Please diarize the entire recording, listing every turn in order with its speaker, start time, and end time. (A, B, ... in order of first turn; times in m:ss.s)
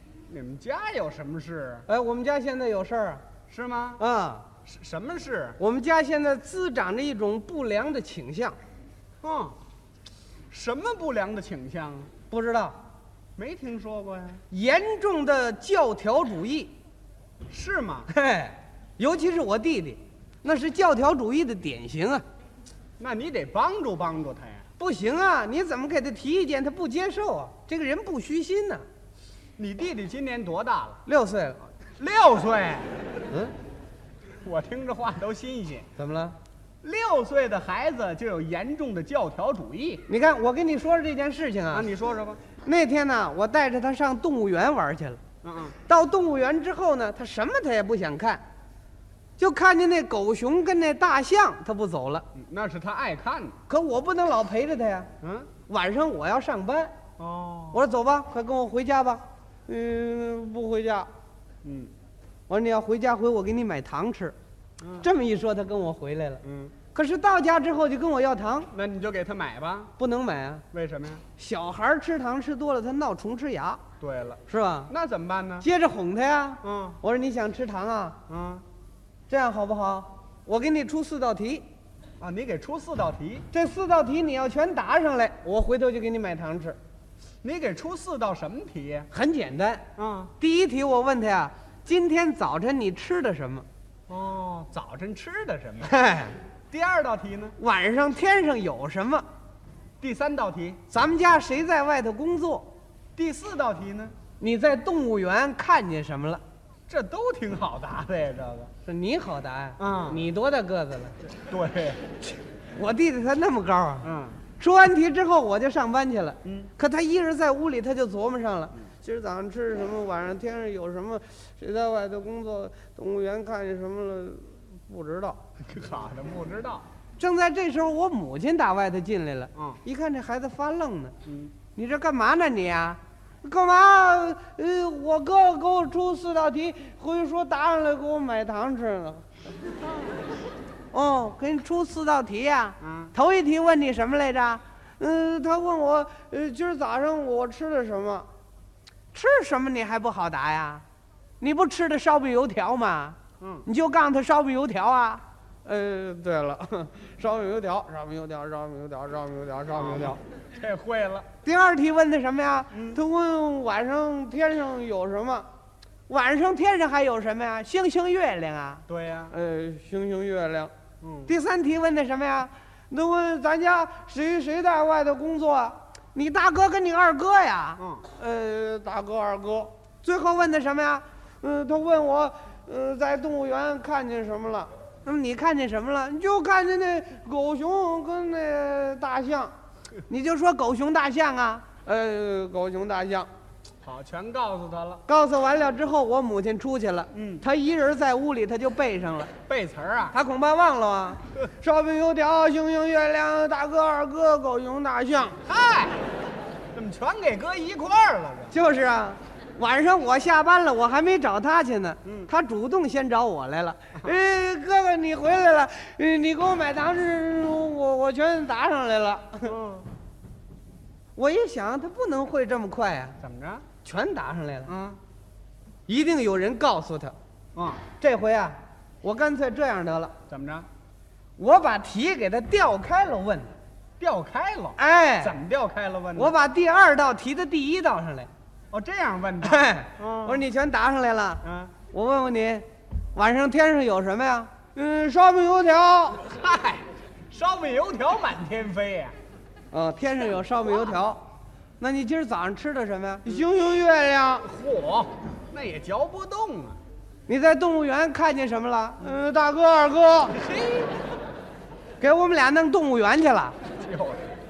0:00.3-0:01.9 A
0:01.9-0:03.2 B
0:03.5-0:04.0 A
0:04.0-0:04.5 B
0:04.7-0:05.6 A
0:05.6-0:08.6 B
0:09.2-0:09.6 A
0:10.5-0:12.1 A
0:12.3-0:12.8 B
0:13.4-0:14.4 A
0:14.5-0:16.7 B
0:17.5-0:18.1 A
0:18.1-0:22.2 B
0:23.0-0:24.7 A
0:24.8-0:28.8 B
0:29.6-0:31.0 A
0:31.1-0:31.6 B
0:32.0-0:33.0 A
0:34.4-0:35.9 A
0:36.0-0:36.4 B
0:36.8-0:40.0 A
0:40.1-0:41.9 B
0:41.7-0:42.4 A
0:42.6-0:45.2 B
0:45.4-0:45.8 A
0:45.8-0:48.4 B
0:49.4-0:52.3 B
0:52.4-0:53.6 A
0:53.7-0:55.1 B
0:55.2-0:55.5 A
0:55.7-0:56.9 B
0:57.2-0:57.8 A
0:57.7-1:01.1 B
1:01.6-1:01.9 A
1:02.5-1:04.4 B
1:05.0-1:08.7 B
1:06.4-1:06.8 A
1:08.7-1:09.9 A
1:10.0-1:10.6 B
1:10.7-1:11.2 A
1:11.4-1:13.8 B
1:14.0-1:15.7 A
1:14.5-1:14.9 B
1:15.6-1:18.2 B
1:16.6-1:17.0 A
1:18.3-1:18.6 A
1:19.3-1:21.7 B
1:22.2-1:23.5 A
1:23.5-1:26.8 B
1:27.4-1:29.1 A
1:29.1-1:29.8 B
1:30.0-1:30.3 A
1:30.4-1:33.7 B
1:34.1-1:35.9 A
1:35.8-1:36.4 B
1:36.7-1:37.6 A
1:37.6-1:39.3 B
1:40.0-1:40.8 A
1:40.9-1:42.7 B
1:43.2-1:44.2 A
1:44.4-1:46.4 B
1:46.9-1:48.7 A
1:48.8-1:51.2 B
1:49.8-1:50.2 A
1:51.5-1:52.0 A
1:52.7-2:05.4 B
1:54.0-1:54.4 A
1:56.4-1:56.7 A
2:05.6-2:06.9 A
2:07.2-2:11.2 B
2:11.2-2:11.5 A
2:11.8-2:19.3 B
2:20.9-2:28.3 B
2:22.8-2:23.1 A
2:29.1-2:30.8 B
2:31.4-2:40.2 B
2:33.4-2:33.7 A
2:39.7-2:41.3 A
2:41.4-2:45.5 B
2:42.7-2:43.0 A
2:46.1-2:50.7 B
2:48.9-2:49.3 A
2:51.0-2:51.3 A
2:51.3-3:09.5 B
2:57.8-2:58.1 A
3:10.1-3:13.3 B
3:13.8-3:15.0 A
3:15.1-3:19.3 B
3:17.1-3:17.4 A
3:19.5-3:20.2 A
3:20.1-3:25.4 B
3:25.4-3:26.1 A
3:26.7-3:28.6 A
3:28.5-3:39.5 B
3:32.0-3:32.3 A
3:39.4-3:39.9 A
3:41.2-3:43.2 B
3:43.2-3:43.7 A
3:43.8-3:44.7 B
3:44.7-3:45.0 A
3:45.9-3:47.2 B
3:47.6-3:47.8 A
3:48.0-3:50.1 B
3:50.3-3:50.7 A
3:51.4-3:53.5 B
3:54.0-3:56.3 A
3:54.8-3:55.4 B
3:56.2-3:58.3 B
3:58.7-4:00.4 A
3:59.4-4:06.3 B
4:01.4-4:01.7 A
4:06.2-4:09.2 A
4:09.7-4:11.2 B
4:11.8-4:14.5 B
4:14.4-4:16.8 A
4:17.3-4:20.4 B
4:20.3-4:21.1 A
4:22.0-4:23.6 B
4:23.7-4:24.3 A